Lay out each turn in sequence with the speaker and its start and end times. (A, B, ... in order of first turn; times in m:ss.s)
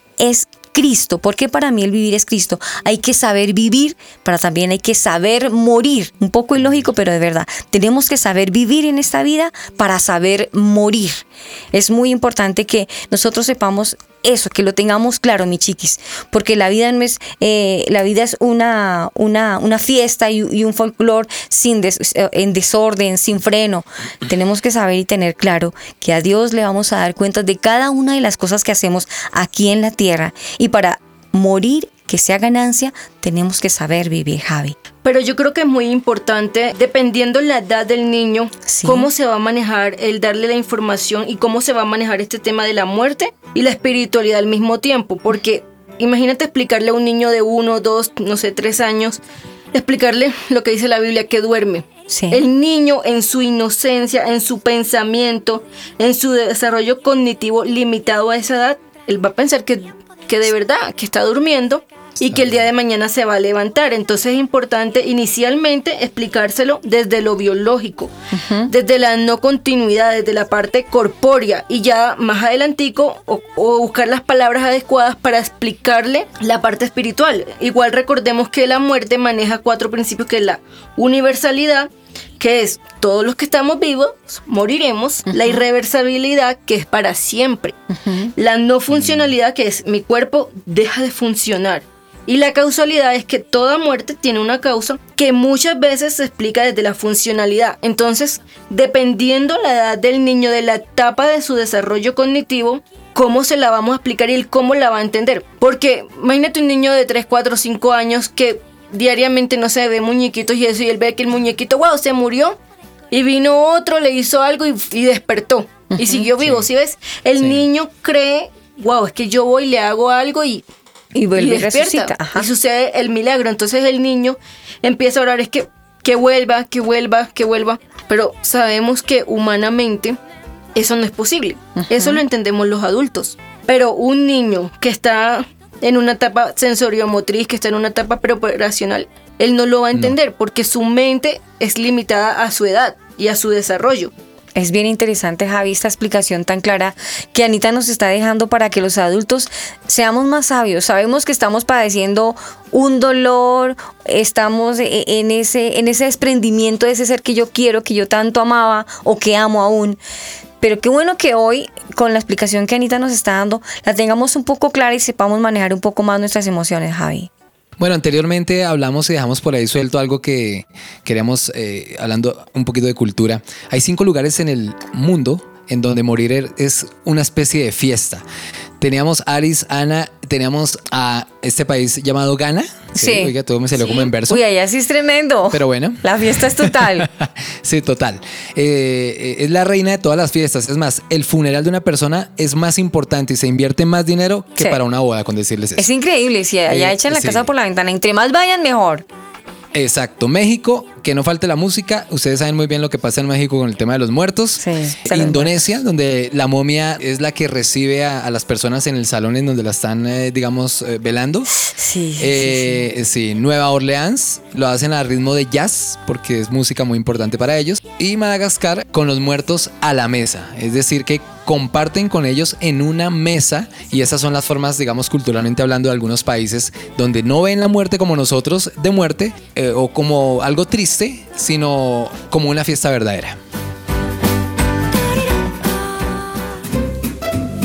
0:00.2-0:34.8 A
0:06.6-0:06.8 B
0:35.0-0:49.2 C
0:38.7-0:39.1 A
0:49.7-1:08.1 C
0:52.1-0:52.4 A
1:08.3-1:08.7 A
1:08.7-1:21.9 C
1:22.4-1:27.8 C
1:25.3-1:25.6 A
1:27.9-1:28.3 A
1:28.4-1:52.6 C
1:28.9-1:29.3 B
1:53.1-2:00.6 C
1:55.9-1:56.3 A
1:56.4-1:56.7 B
1:57.4-1:57.6 B
2:01.2-2:02.5 A
2:01.4-2:10.2 C
2:10.8-2:24.1 C
2:11.8-2:12.2 A
2:24.6-2:40.0 A
2:40.6-2:47.3 A
2:47.8-2:58.2 B
2:58.8-3:04.4 B
3:03.0-3:07.1 A
3:05.5-3:15.9 B
3:15.8-3:19.1 A
3:16.7-3:17.5 B
3:19.7-3:31.5 B
3:24.6-3:25.6 A
3:31.6-3:32.8 A
3:32.2-3:53.4 B